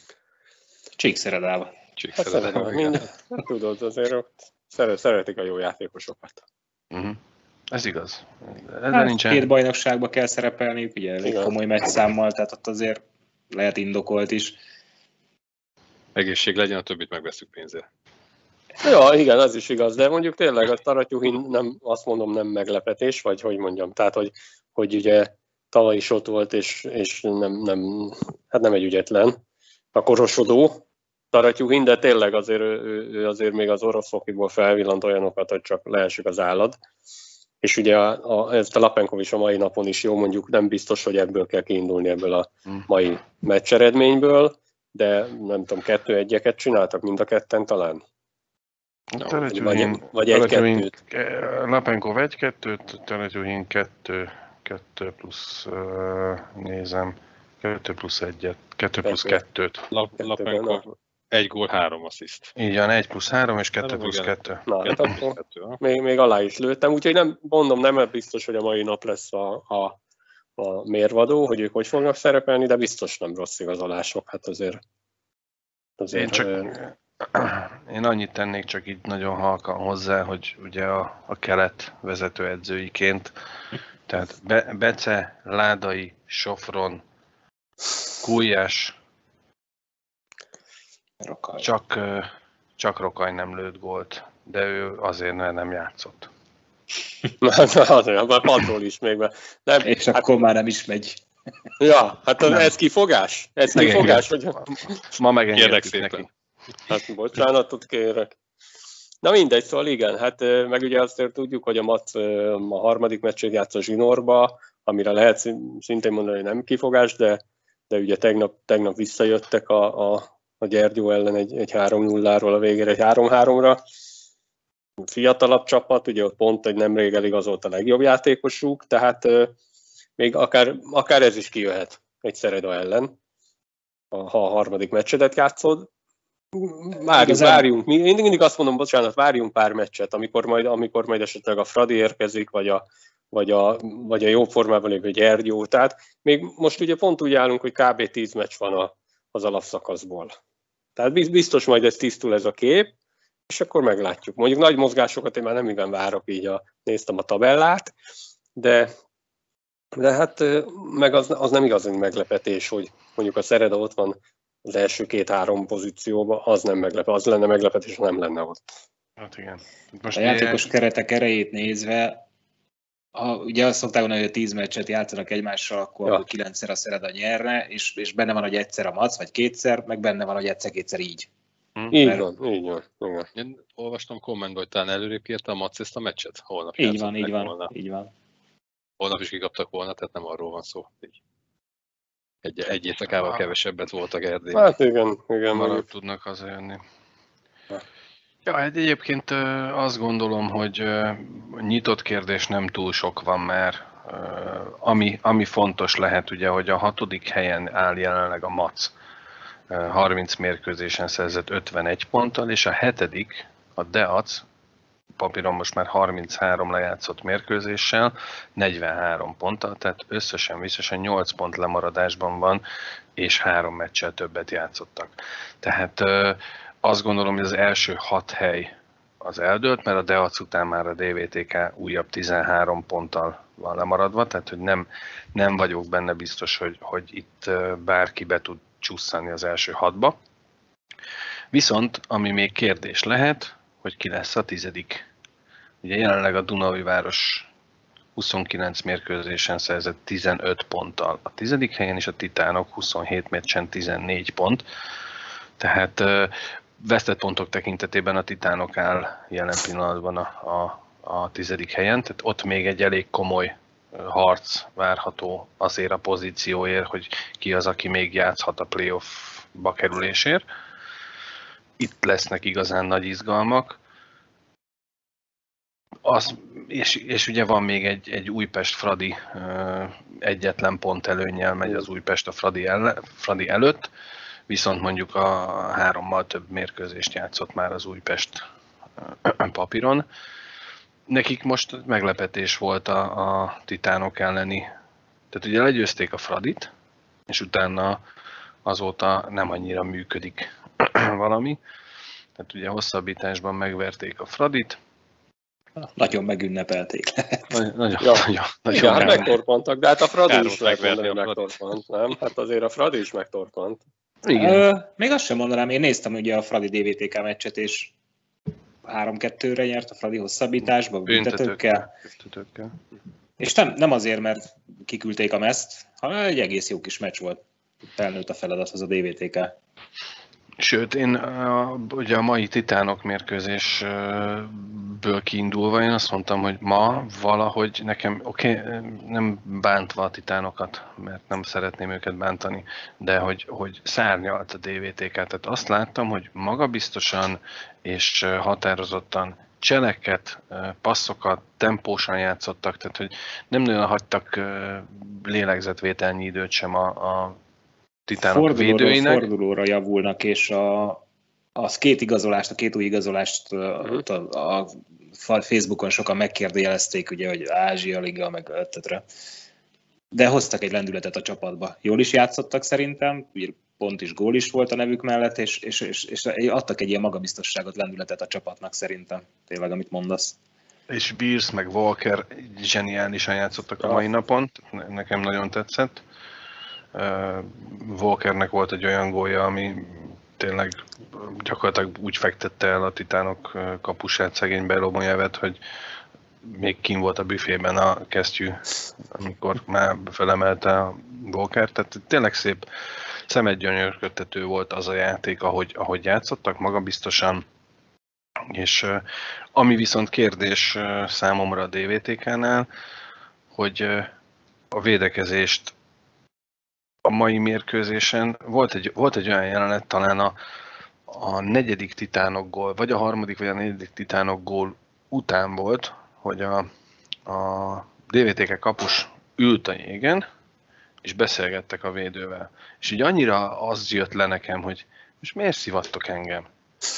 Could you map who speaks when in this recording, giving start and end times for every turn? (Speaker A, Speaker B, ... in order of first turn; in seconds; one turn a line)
Speaker A: 1.0-1.7
Speaker B: 2.0-3.1
Speaker C: 2.2-6.5
Speaker D: 6.9-7.2
Speaker D: 7.7-9.5
Speaker A: 8.9-14.6
Speaker C: 11.2-11.5
Speaker B: 16.1-17.9
Speaker C: 18.8-29.4
Speaker C: 29.9-36.8
Speaker C: 37.6-48.0
Speaker D: 49.1-59.9
Speaker C: 49.2-50.9
Speaker C: 59.0-59.4
Speaker B: 59.9-62.5
Speaker C: 60.2-60.9
Speaker D: 62.6-64.7
Speaker B: 63.8-65.8
Speaker C: 64.7-70.0
Speaker C: 70.6-74.8
Speaker C: 76.0-76.7
Speaker D: 76.1-83.3
Speaker D: 84.1-87.0
Speaker D: 88.2-89.0
Speaker A: 91.2-91.7
Speaker D: 91.6-96.3
Speaker C: 97.4-100.3
Speaker A: 99.8-101.2
Speaker C: 101.8-105.0
Speaker D: 103.7-106.3
Speaker B: 105.5-106.3
Speaker C: 106.9-108.3
Speaker C: 109.2-123.8
Speaker C: 125.0-129.6
Speaker C: 130.2-133.1
Speaker C: 134.1-135.9
Speaker C: 136.5-150.3
Speaker A: 137.1-137.7
Speaker C: 151.0-152.9
Speaker C: 153.5-157.9
Speaker C: 158.6-158.9
Speaker C: 159.9-168.6
Speaker D: 169.2-170.7
Speaker A: 170.1-172.2
Speaker A: 173.2-181.3
Speaker A: 181.9-182.2
Speaker C: 181.9-183.3
Speaker B: 183.3-187.7
Speaker A: 186.8-188.1
Speaker B: 189.0-191.2
Speaker B: 192.4-194.7
Speaker C: 194.5-195.8
Speaker D: 195.5-196.8
Speaker D: 198.4-208.9
Speaker D: 209.7-214.4
Speaker D: 215.2-222.6
Speaker D: 223.2-240.2
Speaker D: 241.5-245.1
Speaker D: 245.8-247.5
Speaker D: 248.2-254.6
Speaker D: 255.6-270.4
Speaker D: 271.8-273.8
Speaker D: 276.1-283.9
Speaker D: 284.5-288.4
Speaker D: 289.0-290.1
Speaker D: 291.1-294.7
Speaker D: 295.3-296.7
Speaker D: 297.3-298.0
Speaker D: 298.6-301.6
Speaker D: 302.4-304.8
Speaker A: 305.8-307.5
Speaker D: 307.5-309.4
Speaker C: 308.0-313.8
Speaker A: 308.8-309.2
Speaker B: 310.3-311.6
Speaker D: 314.2-314.6
Speaker A: 314.3-317.9
Speaker A: 318.8-321.9
Speaker D: 321.1-322.7
Speaker A: 323.4-327.4
Speaker A: 327.9-329.5
Speaker D: 330.6-357.4
Speaker D: 358.1-359.3
Speaker A: 358.2-361.0
Speaker A: 361.6-369.1
Speaker A: 370.1-380.4
Speaker D: 380.9-386.0
Speaker D: 386.9-395.6
Speaker D: 396.4-402.6
Speaker D: 403.3-407.4
Speaker D: 408.5-409.0
Speaker D: 409.6-412.7
Speaker D: 413.5-414.1
Speaker D: 414.7-415.7
Speaker D: 417.1-420.4
Speaker D: 421.1-426.7
Speaker D: 427.3-430.2
Speaker D: 431.0-436.5